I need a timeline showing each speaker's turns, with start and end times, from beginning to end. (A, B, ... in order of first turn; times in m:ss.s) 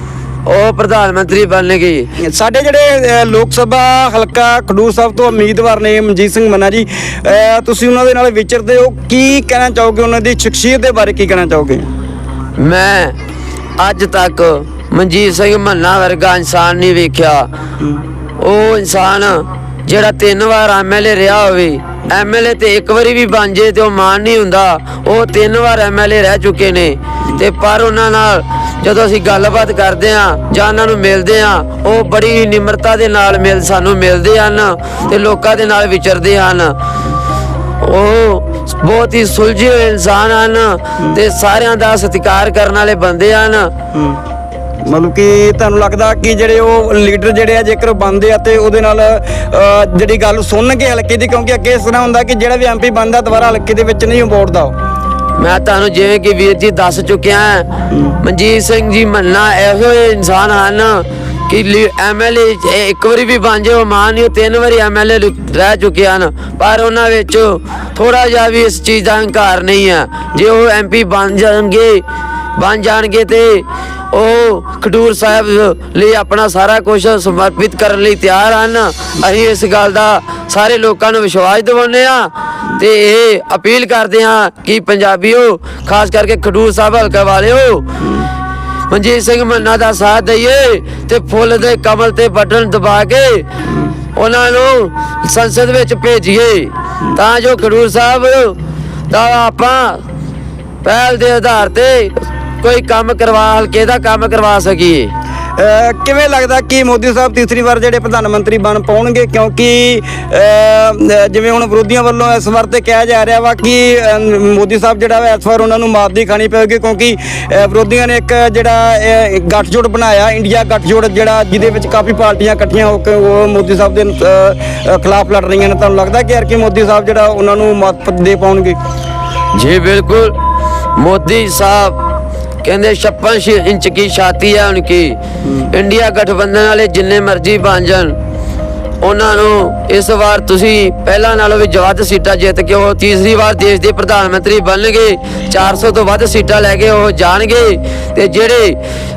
0:00.5-0:02.1 A
0:02.2-0:11.9 B
0:12.6-0:13.2 A
0:13.8-0:17.5 A
0:18.4-0:36.8 A
0:37.8-0:43.7 A
0:43.9-0:44.2 B
0:44.9-0:54.8 B
0:55.4-0:57.7 A
0:57.9-0:58.2 B
0:58.2-1:12.0 A
1:12.6-1:27.9 A
1:28.0-1:28.3 B
1:28.9-1:33.5 A
1:34.1-1:38.6 A
1:39.1-1:40.0 A
1:40.8-1:45.1 A
1:45.6-2:08.8 B
2:09.5-2:10.4 A
2:11.0-2:12.0 A
2:12.6-2:15.2 A
2:15.5-2:15.7 B
2:15.7-2:18.2 A
2:19.0-2:28.8 A